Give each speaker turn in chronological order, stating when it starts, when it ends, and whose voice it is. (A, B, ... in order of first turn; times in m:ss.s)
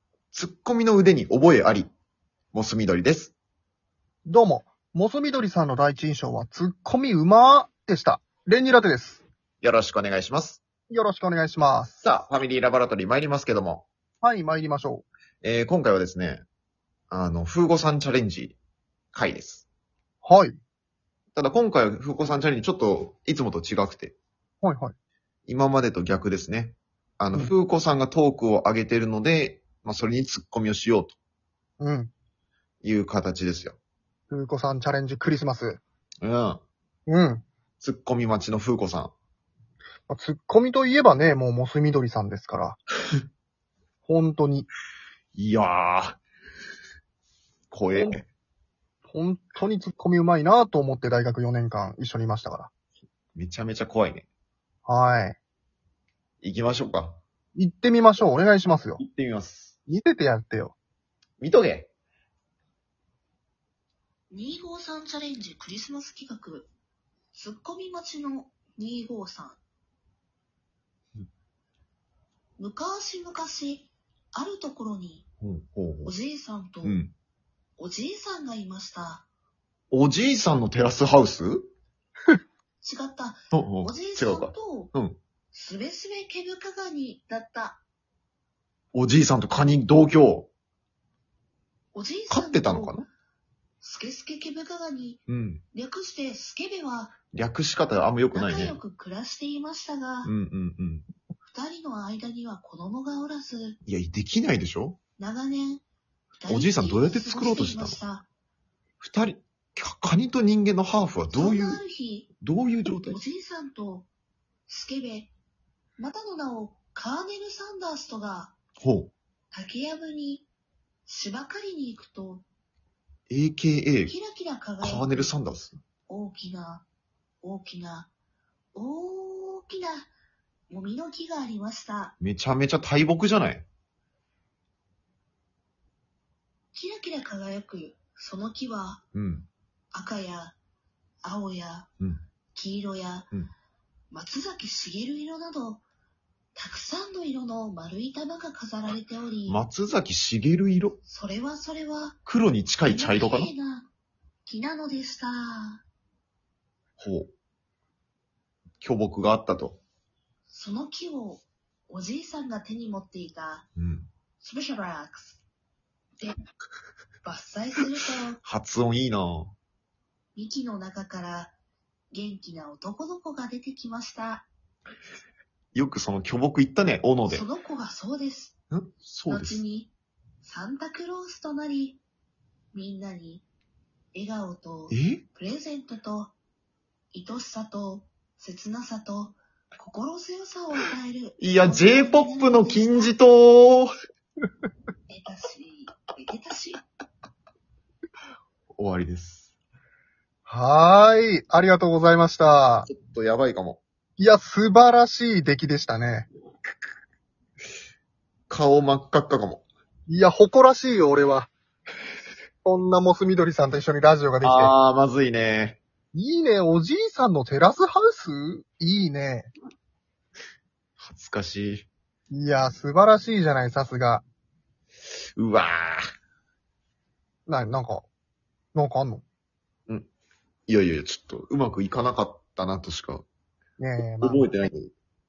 0:00.3-0:01.9 A
0:02.5-0:03.3 A
0:04.2-0:09.2 B
0:09.6-0:10.6 A
0:10.9-0:12.0 B
0:12.0-0:13.8 A
0:14.2-0:15.1 B
0:15.4-0:16.4 A
0:17.1-0:18.6 A
0:19.1-0:19.7 A
0:20.2-0:20.6 B
0:21.3-0:24.2 A
0:24.6-0:24.9 B
0:25.5-0:31.2 A
0:31.8-0:32.1 B
0:32.8-0:33.8 A
0:34.3-0:35.8 B
0:36.2-0:36.6 A
0:37.1-0:37.4 B
0:37.8-0:39.1 A
0:40.1-0:42.8 B
0:44.0-0:44.7 B
0:45.3-0:46.2 A
0:47.7-0:48.2 A
0:49.1-0:52.7 B
0:53.3-0:54.3 A
0:54.8-0:55.4 B
0:56.4-0:57.2 A
0:57.6-0:59.0 B
0:59.0-0:59.8 A
0:59.9-1:00.8 B
1:01.4-1:01.9 A
1:04.3-1:06.7 C
1:07.3-1:09.6 C
1:12.6-1:15.3 C
1:15.4-1:16.2 A
1:16.0-1:17.0 C
1:16.8-1:17.1 A
1:17.8-1:19.3 C
1:19.9-1:21.7 A
1:22.8-1:24.9 C
1:23.5-1:25.2 A
1:25.5-1:27.8 C
1:28.9-1:30.5 A
1:31.9-1:33.0 C
1:32.3-1:33.1 A
1:33.8-1:35.2 C
1:35.3-1:35.6 A
1:35.7-1:37.2 C
1:37.3-1:38.8 A
1:38.3-1:40.3 C
1:40.2-1:41.1 A
1:41.4-1:43.8 C
1:43.9-1:45.0 A
1:45.2-1:45.8 C
1:46.4-1:48.3 C
1:46.4-1:48.0 A
1:49.0-1:51.8 A
1:51.3-1:52.4 C
1:52.4-1:53.2 A
1:53.0-1:54.1 C
1:54.7-1:55.3 C
1:56.0-1:58.6 C
1:58.8-1:59.1 A
1:59.5-2:00.5 C
2:01.1-2:02.4 C
2:03.3-2:04.1 A
2:04.0-2:05.3 C
2:04.8-2:05.8 A
2:06.1-2:06.9 C
2:07.4-2:08.1 C
2:08.7-2:10.1 C
2:10.7-2:12.2 C
2:12.2-2:13.7 A
2:16.7-2:19.0 C
2:19.1-2:19.5 A
2:19.9-2:20.6 C
2:21.2-2:21.9 C
2:22.5-2:23.3 C
2:24.1-2:25.8 C
2:26.5-2:29.6 C
2:29.5-2:31.0 A
2:31.0-2:32.2 C
2:32.2-2:33.5 A
2:32.8-2:33.9 C
2:34.4-2:35.8 C
2:37.0-2:37.3 A
2:38.8-2:39.8 A
2:40.5-2:43.7 C
2:43.8-2:44.1 A
2:44.4-2:45.4 C
2:47.2-2:48.4 C
2:48.4-2:49.5 A
2:50.3-2:51.5 C
2:52.1-2:54.5 C
2:55.7-2:57.5 A
2:57.2-2:58.6 C
2:58.7-2:59.6 A
2:59.3-3:02.0 C
3:02.7-3:03.5 C
3:04.1-3:06.3 C
3:04.9-3:05.2 A
3:07.1-3:13.2 C
3:11.4-3:13.9 A
3:15.1-3:16.8 C
3:18.8-3:19.5 A
3:20.5-3:22.9 B
3:22.8-3:23.8 A
3:24.2-3:26.3 B
3:28.5-3:29.6 A
3:30.1-3:31.5 B
3:32.6-3:34.7 B
3:34.4-3:35.8 A
3:36.1-3:39.5 B
3:41.0-3:41.9 A
3:42.3-3:44.2 B
3:45.4-3:46.0 A
3:47.5-3:48.0 B
3:48.8-3:49.2 B
3:50.7-3:53.2 A
3:53.8-3:54.5 B
3:54.2-3:54.9 A